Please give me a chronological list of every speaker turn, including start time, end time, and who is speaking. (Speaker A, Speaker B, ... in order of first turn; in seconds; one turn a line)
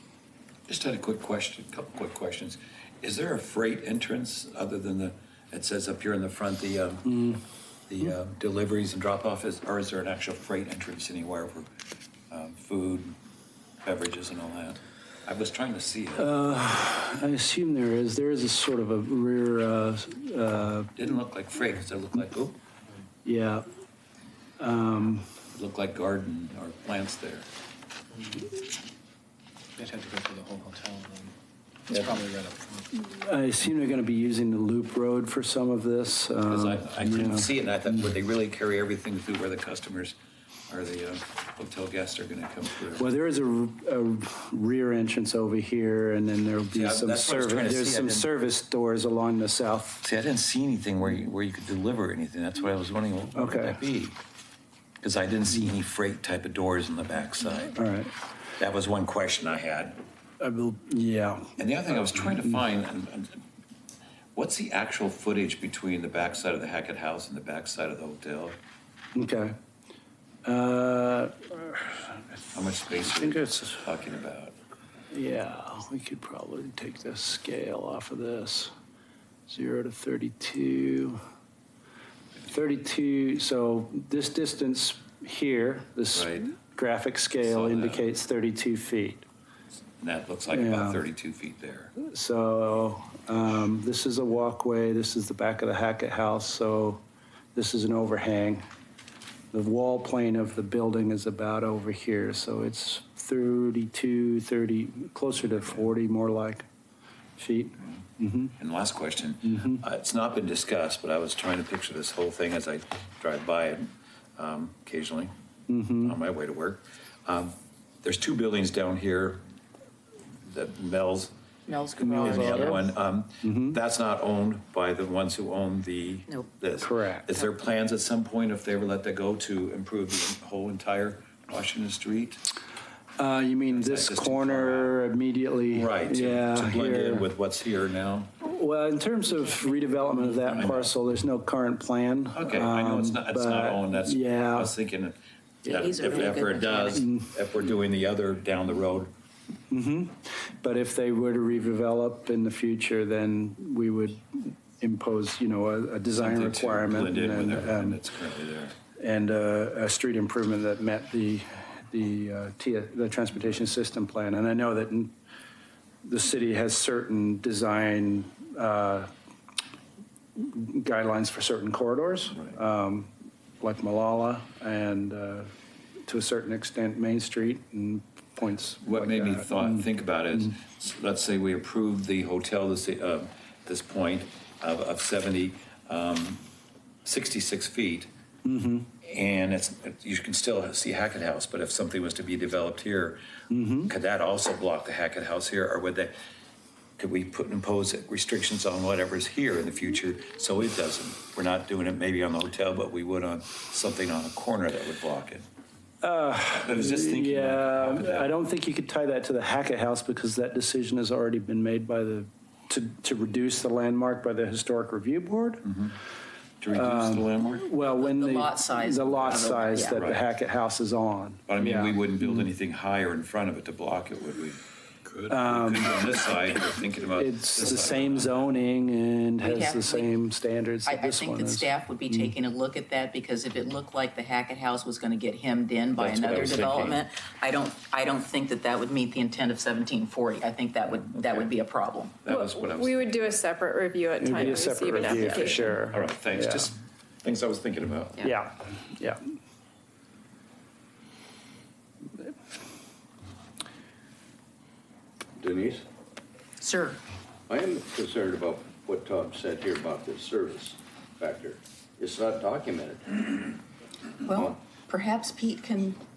Speaker A: 0.7-7.3
Speaker B: 7.1-7.4
Speaker A: 7.9-11.7
Speaker A: 12.3-13.2
Speaker A: 13.8-16.3
Speaker B: 16.2-20.9
Speaker A: 21.0-22.6
Speaker B: 23.2-23.6
Speaker B: 24.6-25.3
Speaker A: 25.5-27.5
Speaker C: 29.8-31.3
Speaker A: 31.9-32.2
Speaker C: 31.9-32.9
Speaker B: 32.9-38.0
Speaker A: 36.5-40.2
Speaker A: 40.7-43.1
Speaker B: 42.9-50.0
Speaker A: 46.7-48.3
Speaker A: 50.0-54.2
Speaker B: 53.4-53.8
Speaker A: 55.0-57.8
Speaker B: 57.8-58.1
Speaker A: 58.6-60.0
Speaker B: 60.4-62.6
Speaker A: 61.6-63.4
Speaker A: 64.3-68.6
Speaker B: 69.2-69.5
Speaker B: 70.5-72.4
Speaker A: 72.5-74.6
Speaker B: 73.0-73.9
Speaker B: 75.1-78.7
Speaker B: 79.5-81.2
Speaker B: 82.5-89.2
Speaker A: 86.1-86.5
Speaker A: 87.4-88.1
Speaker A: 90.0-91.9
Speaker B: 90.5-91.0
Speaker B: 92.0-97.0
Speaker B: 97.5-98.6
Speaker B: 99.5-106.7
Speaker B: 107.4-108.5
Speaker A: 108.6-115.3
Speaker B: 109.4-109.8
Speaker B: 115.7-116.2
Speaker A: 116.0-119.4
Speaker A: 120.4-121.3
Speaker D: 121.7-122.9
Speaker A: 122.0-132.4
Speaker B: 122.1-122.9
Speaker B: 123.4-123.8
Speaker B: 126.8-127.3
Speaker B: 133.2-137.3
Speaker A: 133.7-135.0
Speaker A: 135.7-138.3
Speaker B: 138.4-144.7
Speaker D: 139.3-140.7
Speaker A: 140.5-140.9
Speaker A: 142.3-149.1
Speaker D: 145.7-147.1
Speaker B: 146.9-147.3
Speaker B: 149.7-158.0
Speaker A: 156.2-158.8
Speaker B: 158.9-165.1
Speaker B: 166.0-169.1
Speaker B: 170.4-175.5
Speaker B: 176.1-179.8
Speaker A: 178.8-186.4
Speaker A: 187.1-188.1
Speaker B: 188.4-188.9
Speaker A: 189.0-193.2
Speaker B: 193.5-193.9
Speaker A: 193.9-196.1
Speaker A: 197.0-205.5
Speaker B: 206.0-215.8
Speaker A: 206.5-208.3
Speaker A: 216.6-217.7
Speaker B: 216.7-222.4
Speaker D: 217.8-220.0
Speaker A: 219.3-220.2
Speaker A: 221.5-228.5
Speaker B: 225.3-226.3
Speaker B: 227.0-232.3
Speaker D: 229.4-230.2
Speaker D: 230.9-242.2
Speaker A: 236.0-237.0
Speaker A: 241.1-241.5
Speaker A: 242.2-243.4
Speaker E: 242.3-245.8
Speaker B: 244.2-246.7
Speaker A: 245.1-248.3
Speaker B: 248.2-249.2
Speaker F: 255.4-255.8
Speaker D: 256.6-257.0
Speaker F: 257.5-263.5
Speaker D: 264.2-266.0